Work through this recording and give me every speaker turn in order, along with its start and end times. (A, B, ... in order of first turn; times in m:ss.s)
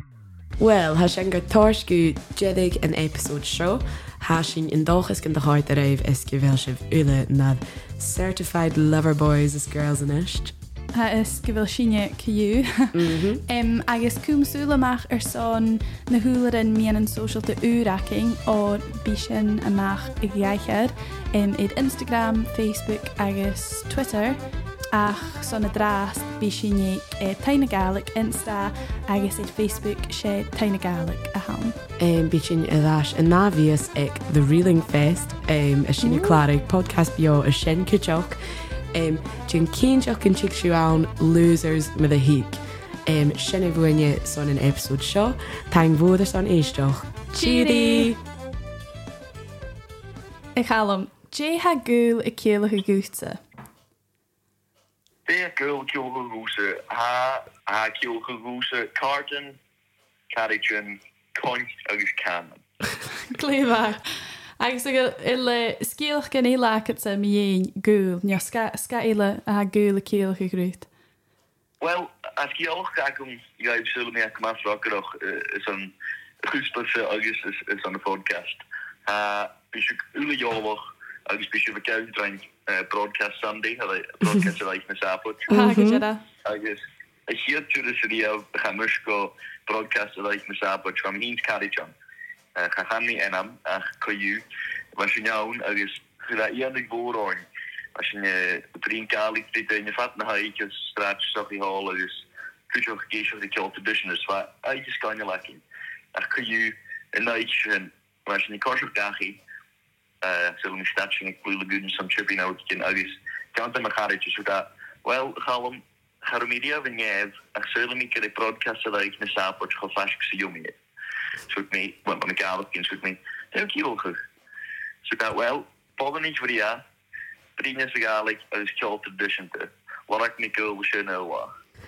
0:00.6-0:10.5 A
0:10.9-0:24.4 B
0:12.9-0:13.4 A
0:24.9-0:31.8 B
0:32.0-0:38.4 A
0:36.0-0:36.4 B
0:38.9-0:48.2 A
0:47.3-0:48.1 B
0:50.6-0:53.4 B
0:55.3-0:59.6 C
1:00.3-1:02.6 C
1:03.3-1:04.0 B
1:04.6-1:10.9 B
1:11.8-1:25.5 C
1:25.5-1:26.2 B
1:25.5-1:26.0 A
1:26.4-1:31.9 C
1:32.6-1:34.4 C
1:35.0-1:45.6 C
1:46.2-1:49.4 C
1:50.2-2:00.8 C
2:01.5-2:04.2 C
2:05.1-2:06.8 C
2:07.6-2:11.5 C